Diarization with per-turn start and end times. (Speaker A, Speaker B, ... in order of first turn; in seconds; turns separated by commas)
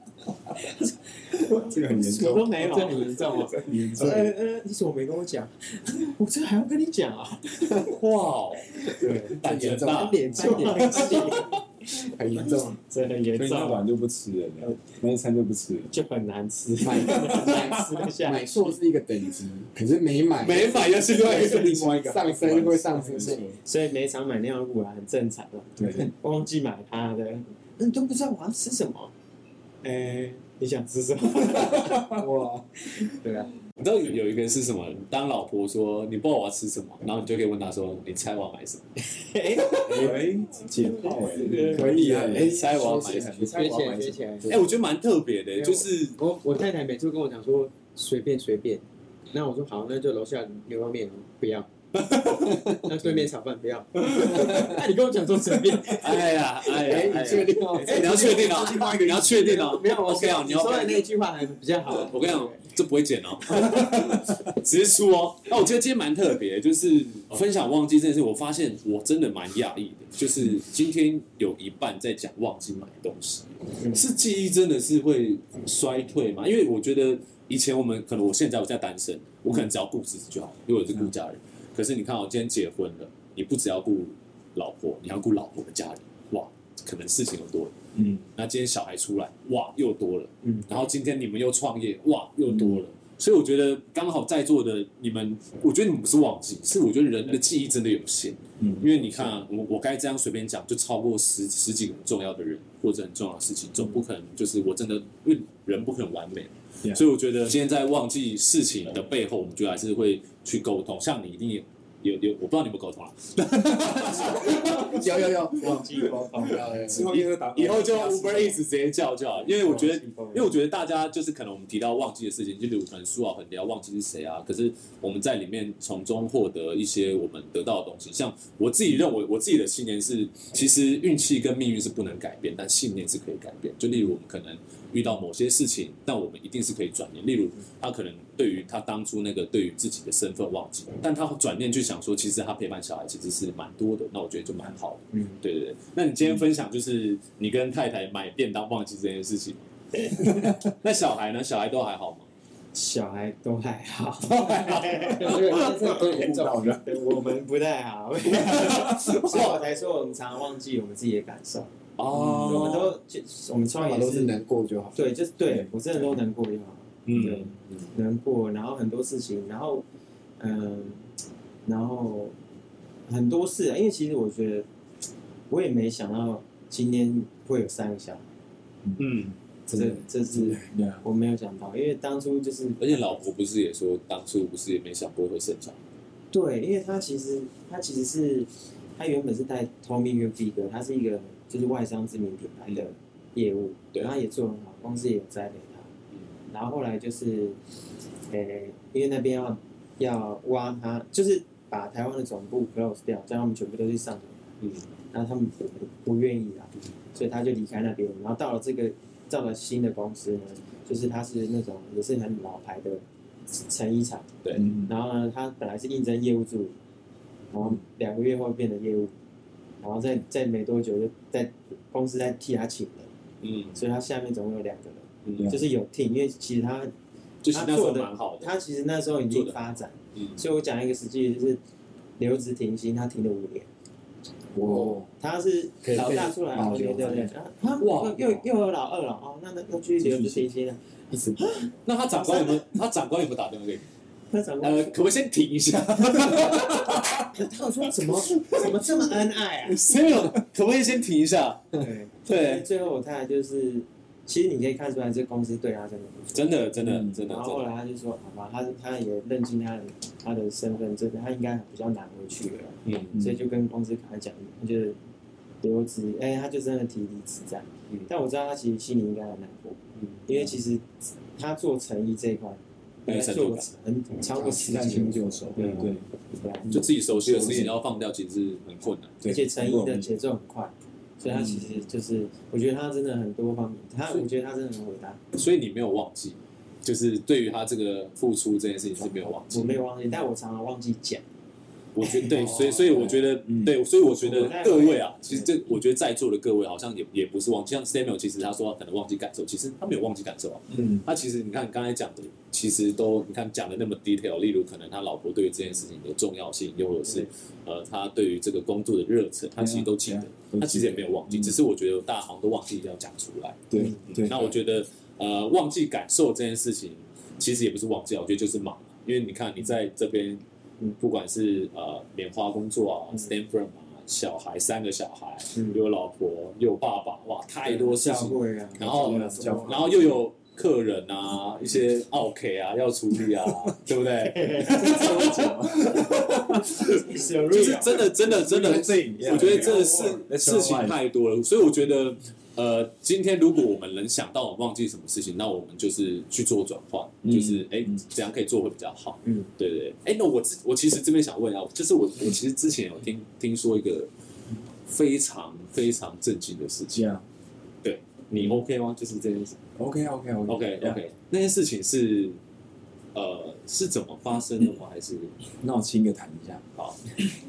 Speaker A: 0.6-8.0, Speaker B: 1.3-4.3, Speaker C: 2.3-3.6, Speaker D: 7.8-11.3, Speaker A: 8.8-11.6, Speaker E: 9.2-11.4, Speaker C: 10.4-11.1, Speaker E: 11.9-12.8, Speaker A: 12.3-13.8, Speaker B: 13.3-15.9, Speaker A: 15.9-18.7, Speaker E: 16.8-23.5, Speaker B: 17.0-17.8, Speaker D: 20.4-21.9, Speaker B: 20.4-23.6, Speaker A: 23.6-29.1, Speaker B: 25.8-26.1, Speaker A: 29.8-32.3, Speaker E: 32.0-32.6, Speaker A: 32.9-33.5, Speaker D: 33.8-38.8, Speaker A: 39.2-40.2, Speaker B: 39.8-44.5, Speaker E: 39.9-40.2, Speaker A: 41.4-41.7, Speaker C: 41.5-42.4, Speaker E: 41.5-43.7, Speaker D: 42.1-43.5, Speaker C: 43.5-44.5, Speaker D: 44.5-46.2, Speaker C: 45.6-51.7, Speaker D: 52.0-52.5, Speaker E: 52.4-52.8, Speaker C: 52.6-56.3, Speaker D: 56.0-61.0, Speaker E: 56.7-59.6, Speaker C: 57.7-62.6, Speaker D: 62.0-87.8, Speaker B: 87.9-88.2, Speaker D: 88.3-115.3, Speaker B: 92.5-92.8, Speaker B: 98.6-99.4, Speaker A: 114.4-116.8, Speaker B: 114.5-114.9, Speaker E: 114.7-117.2, Speaker B: 116.8-118.6, Speaker D: 117.5-152.3, Speaker A: 119.5-120.5, Speaker A: 145.1-145.4, Speaker A: 152.7-161.7, Speaker B: 154.3-157.0, Speaker C: 155.1-156.8, Speaker D: 158.3-159.6, Speaker B: 158.4-159.2, Speaker D: 162.0-162.9, Speaker B: 162.1-162.6, Speaker A: 162.3-164.3, Speaker E: 163.8-165.2, Speaker A: 164.9-169.8, Speaker B: 165.4-166.0, Speaker D: 167.1-167.5, Speaker A: 170.4-171.0, Speaker A: 171.6-172.3, Speaker A: 173.1-174.7, Speaker A: 175.5-178.2, Speaker D: 179.0-179.3, Speaker A: 179.7-183.1, Speaker B: 179.7-181.0, Speaker D: 182.8-185.8, Speaker A: 186.3-195.9, Speaker A: 196.5-197.6, Speaker A: 198.3-204.4, Speaker D: 204.6-204.9, Speaker A: 205.1-213.0, Speaker A: 213.5-216.8, Speaker D: 214.4-214.7, Speaker B: 214.6-214.9, Speaker A: 217.5-219.1, Speaker A: 219.8-223.1, Speaker D: 223.4-223.8, Speaker A: 223.8-226.9, Speaker D: 225.2-225.6, Speaker D: 227.4-228.6, Speaker A: 227.5-231.6, Speaker D: 229.2-230.4, Speaker A: 232.2-233.7, Speaker E: 234.6-235.0, Speaker A: 234.7-240.8, Speaker E: 235.8-237.3, Speaker D: 235.9-236.3, Speaker D: 237.8-238.4, Speaker B: 240.0-240.5, Speaker E: 241.1-241.4, Speaker A: 241.3-242.7, Speaker D: 241.8-243.8, Speaker A: 244.3-244.9, Speaker D: 244.6-247.2, Speaker B: 246.2-247.0, Speaker A: 247.3-249.9, Speaker D: 248.1-248.7, Speaker D: 249.6-252.7, Speaker A: 251.8-256.4, Speaker D: 256.3-257.7, Speaker B: 256.8-257.2, Speaker A: 257.2-265.0, Speaker D: 262.9-263.1, Speaker B: 263.1-263.4, Speaker A: 265.6-276.8, Speaker D: 273.1-273.7, Speaker E: 274.3-275.1, Speaker B: 274.6-276.0, Speaker D: 275.6-275.9, Speaker B: 276.7-277.8, Speaker D: 276.7-279.2, Speaker B: 279.2-280.1, Speaker A: 279.2-285.2, Speaker B: 281.3-281.6, Speaker D: 285.4-289.8, Speaker A: 289.5-291.2, Speaker D: 291.9-320.4, Speaker B: 292.2-293.7, Speaker A: 294.2-295.5, Speaker B: 300.7-301.0, Speaker B: 309.5-311.6, Speaker B: 313.7-314.6, Speaker D: 321.0-354.1, Speaker A: 325.5-325.8, Speaker A: 327.6-329.8, Speaker B: 328.8-330.2, Speaker A: 334.1-335.5, Speaker B: 334.7-337.2, Speaker A: 336.8-338.1, Speaker B: 338.1-341.0, Speaker A: 339.3-340.2, Speaker B: 347.2-348.0, Speaker D: 354.9-357.0, Speaker B: 356.9-357.2, Speaker D: 357.8-359.6, Speaker B: 359.8-361.0, Speaker D: 360.5-362.4, Speaker D: 363.1-365.3, Speaker B: 365.6-366.6, Speaker D: 366.8-367.1